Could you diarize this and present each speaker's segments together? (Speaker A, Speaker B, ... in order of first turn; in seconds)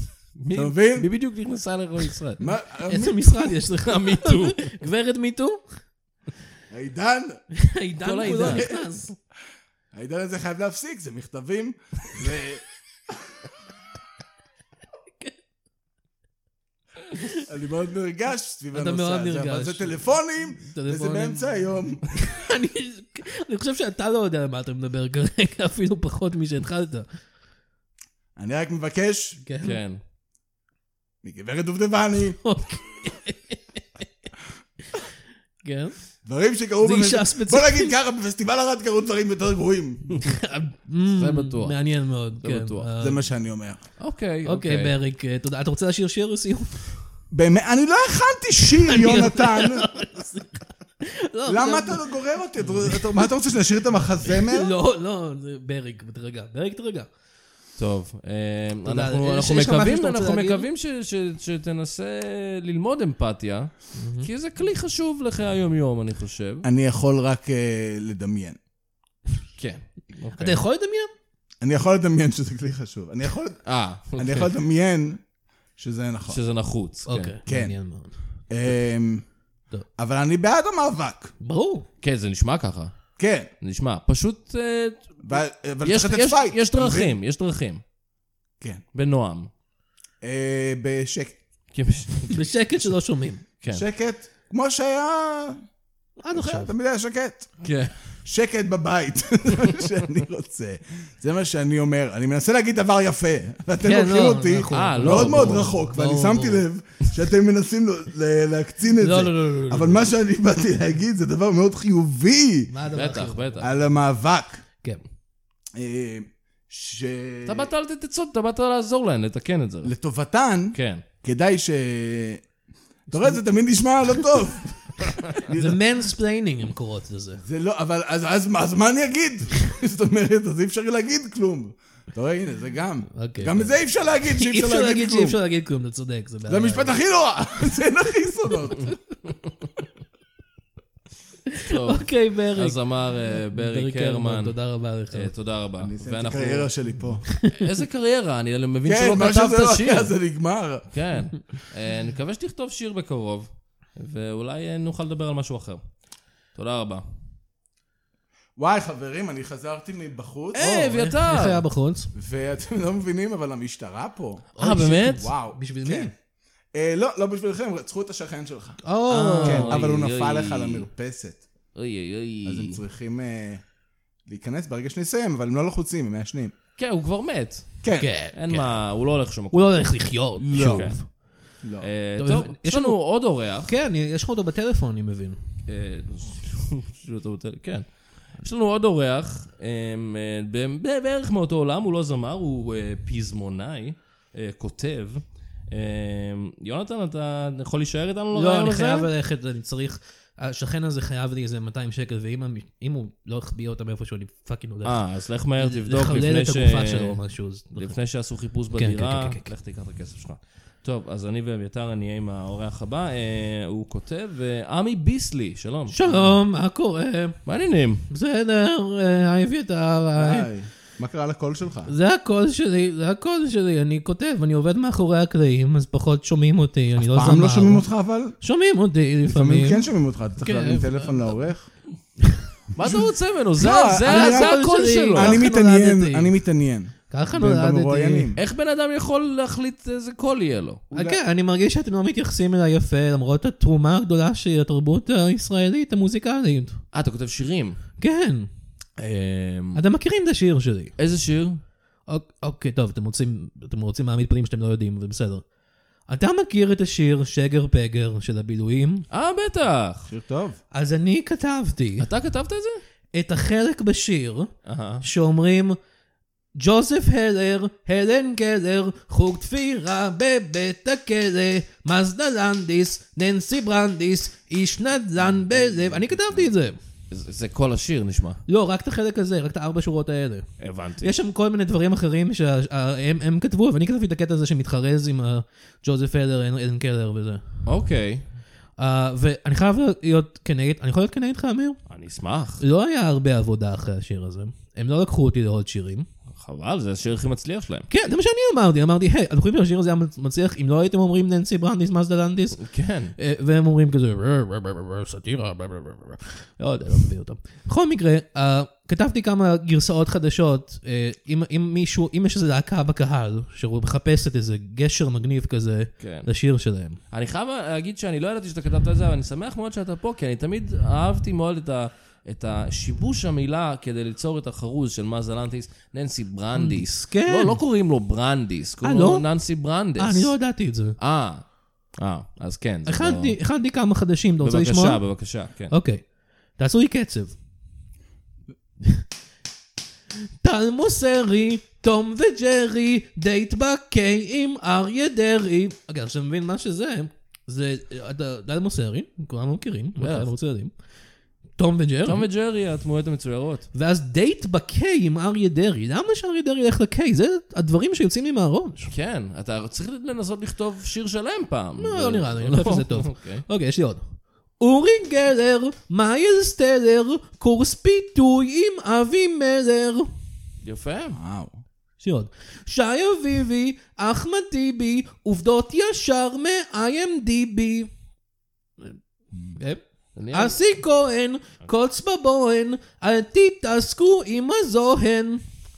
Speaker A: 0.4-2.5, 3.8-4.6, 8.0-8.7, 29.6-30.0, 41.1-41.8, 42.4-42.9, 44.0-45.0, 57.8-66.7, 69.6-70.6, 73.7-74.5, 76.3-77.3, 82.0-82.9, 83.6-87.8, 88.9-89.5, 91.7-92.5, 97.6-98.0, 104.7-105.7, 112.9-113.7, 117.5-119.9, 120.7-121.0, 141.7-144.6, 145.1-146.7, 147.5-150.1, 150.9-155.8, 156.6-157.0, 160.6-161.6, 164.6-165.3, 169.1-170.9, 171.8-172.8, 176.8-177.7, 178.3-179.9, 180.5-180.9, 181.8-183.7, 185.7-187.8, 188.4-199.1, 204.8-207.2, 207.8-216.3, 217.5-218.1, 232.7-235.5, 238.4-240.8, 246.9-247.8, 249.0-249.8, 251.0-251.6, 259.1-260.1, 262.0-262.8, 264.7-265.0, 277.1-278.4, 280.6-281.1, 287.7-288.2, 291.9-292.6, 296.4-297.9, 302.6-303.1, 316.0-316.3, 317.1-330.4, 331.0-333.4, 334.4-335.7, 350.0-350.3, 352.1-353.7, 358.9-363.4, 370.6-371.2, 380.2-380.6
Speaker B: 0.5-1.1, 2.4-3.4, 6.7-7.4, 8.4-8.8, 9.9-13.3, 17.3-22.1, 28.4-29.4, 31.2-32.4, 36.2-40.2, 43.0-43.8, 47.3-49.9, 51.5-54.7, 66.6-68.6, 71.6-73.6, 74.2-75.2, 75.8-76.4, 77.5-77.8, 78.5-79.3, 80.0-81.3, 83.2-83.5, 85.2-87.2, 90.2-91.4, 93.7-95.6, 96.3-97.5, 98.2-112.7, 113.6-114.6, 115.8-117.7, 119.8-122.4, 123.1-125.8, 127.4-135.4, 136.5-138.9, 145.8-147.2, 148.8-150.9, 158.6-160.8, 162.2-164.6, 165.1-166.1, 166.7-168.8, 169.4-171.4, 172.4-173.6, 174.3-176.5, 177.8-178.1, 180.4-180.9, 181.6-181.9, 220.2-221.9, 227.0-228.4, 229.3-231.7, 232.8-234.6, 235.1-238.4, 240.9-241.2, 260.1-260.6, 371.1-371.6
Speaker C: 2.9-5.6, 7.5-9.2, 18.7-21.4, 22.1-27.1, 29.4-29.8, 32.4-33.8, 35.6-36.0, 36.8-37.9, 40.2-43.2, 44.5-46.8, 48.8-52.1, 52.7-53.3, 54.3-57.1, 58.9-60.7, 64.0-64.3, 70.4-71.1, 77.1-78.1, 81.4-81.9, 92.3-93.4, 96.2-96.7, 103.8-106.7, 109.0-110.1, 112.7-113.6, 125.5-127.4, 133.1-137.0, 141.5-142.8, 143.3-145.3, 147.3-147.6, 160.6-162.1, 164.6-166.1, 168.8-169.8, 178.0-178.7, 179.5-181.1, 182.2-183.0, 183.6-185.4, 198.3-205.0, 205.6-208.0, 208.7-209.5, 215.9-217.4, 218.1-220.5, 221.9-227.8, 228.4-231.1, 234.0-236.3, 237.1-238.3, 240.9-246.8, 248.0-248.5, 249.8-250.9, 252.1-255.4, 256.1-259.1, 260.7-262.1, 263.1-265.8, 266.6-276.8, 278.5-280.5, 281.0-287.4, 288.8-291.8, 292.6-296.1, 297.9-302.6, 303.2-317.0, 326.5-327.6, 328.8-329.3, 330.0-331.0, 332.9-335.0, 335.7-336.0, 336.6-337.4, 340.4-350.7, 351.6-352.3, 353.7-358.9, 361.8-364.0, 364.6-370.1, 372.0-377.9, 379.6-385.4